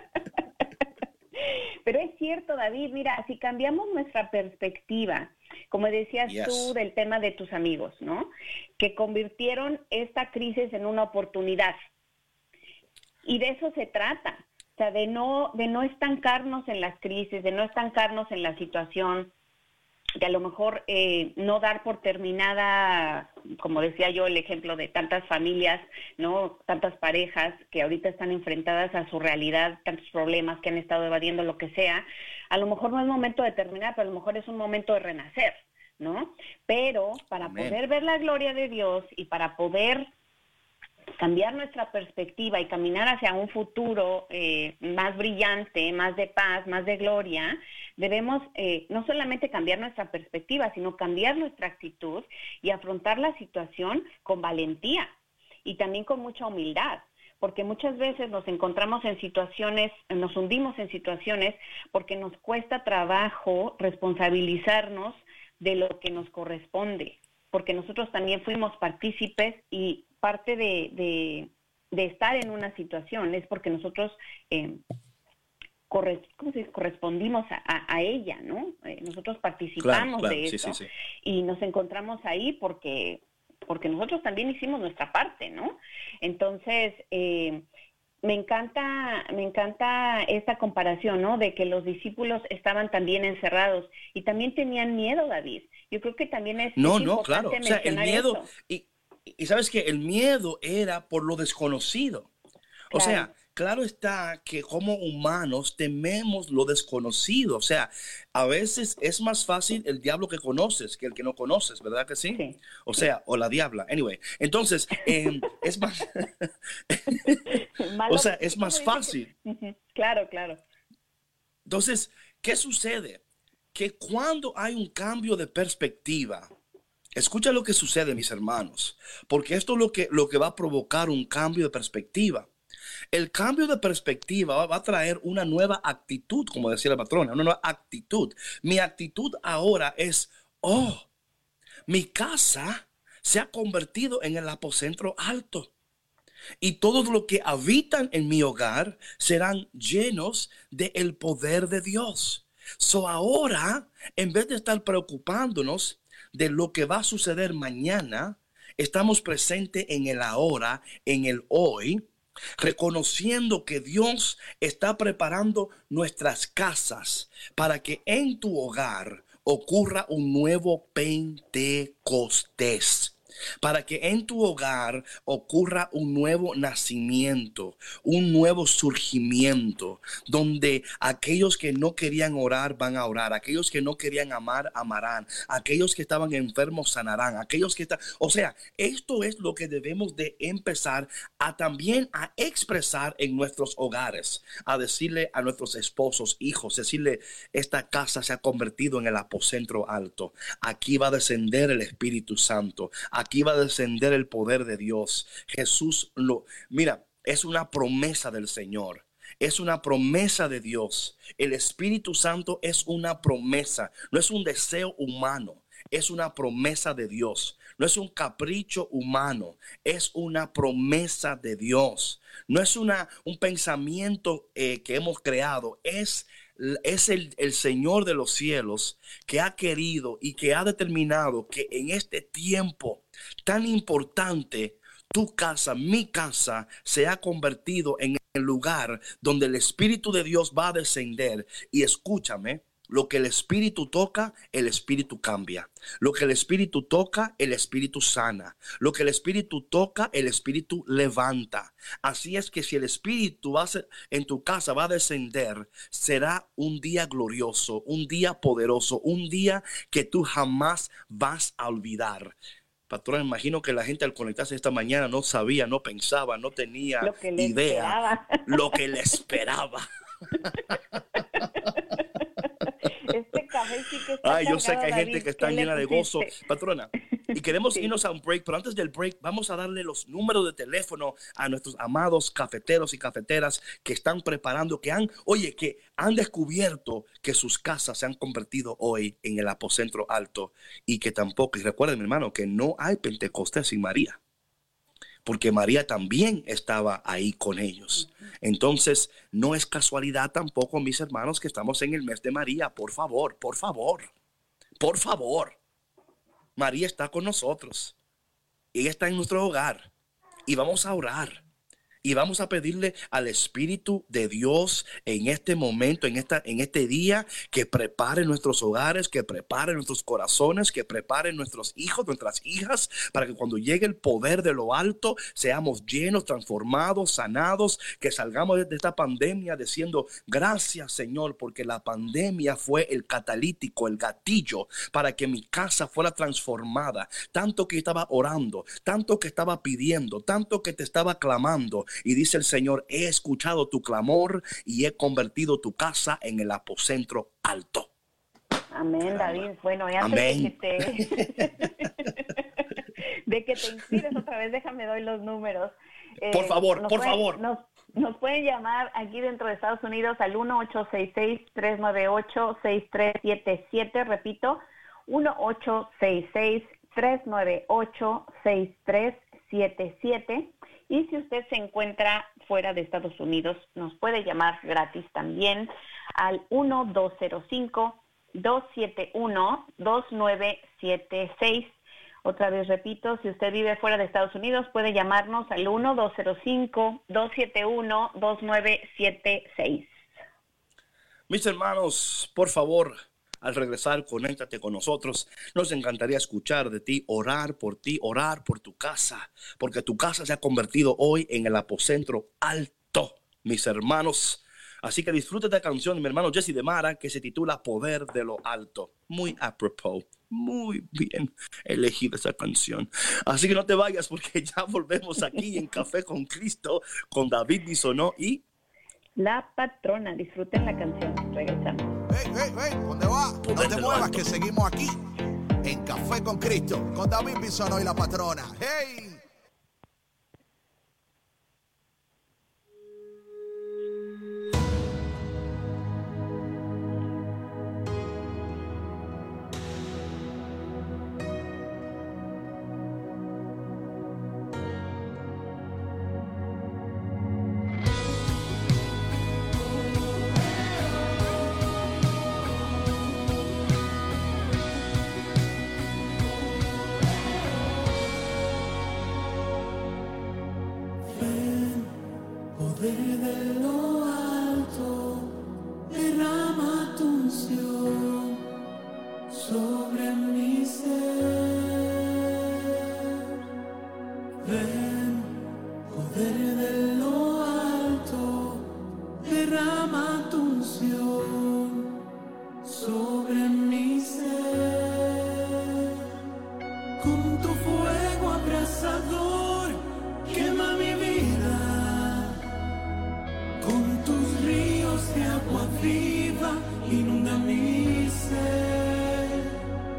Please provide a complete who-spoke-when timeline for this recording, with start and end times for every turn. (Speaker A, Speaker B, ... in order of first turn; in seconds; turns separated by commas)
Speaker A: 1.4-11.8, Speaker B: 6.3-6.7, Speaker A: 13.2-19.3, Speaker A: 20.2-40.1, Speaker B: 37.4-37.8, Speaker A: 41.2-55.1, Speaker A: 55.6-74.8, Speaker A: 75.9-87.7, Speaker B: 79.8-80.9, Speaker A: 88.2-98.5, Speaker B: 96.8-102.3, Speaker B: 102.9-117.6, Speaker A: 102.9-103.3, Speaker A: 117.5-120.6, Speaker B: 118.1-119.3, Speaker B: 121.7-123.2, Speaker B: 123.7-126.5, Speaker B: 127.2-132.5, Speaker B: 133.1-141.1, Speaker B: 141.9-145.7, Speaker B: 146.6-162.1, Speaker B: 162.6-262.4, Speaker B: 262.9-269.9, Speaker A: 267.0-268.8, Speaker B: 270.4-271.0, Speaker A: 273.0-276.3, Speaker B: 274.2-294.2, Speaker B: 295.2-304.1, Speaker B: 304.8-305.6, Speaker B: 306.6-308.0, Speaker B: 308.7-309.9, Speaker B: 310.5-311.4, Speaker B: 312.0-347.9, Speaker A: 348.7-351.9, Speaker B: 349.0-349.5, Speaker B: 350.0-351.9, Speaker A: 353.3-381.7, Speaker B: 356.3-357.4, Speaker A: 382.2-389.9, Speaker B: 391.3-418.4, Speaker A: 419.2-421.9, Speaker C: 422.1-425.0, Speaker B: 423.4-424.3, Speaker C: 425.6-429.2, Speaker D: 461.1-462.0, Speaker D: 462.6-468.5, Speaker D: 469.3-471.9, Speaker D: 474.4-481.9, Speaker D: 482.6-485.2, Speaker D: 487.0-492.4, Speaker D: 493.6-499.4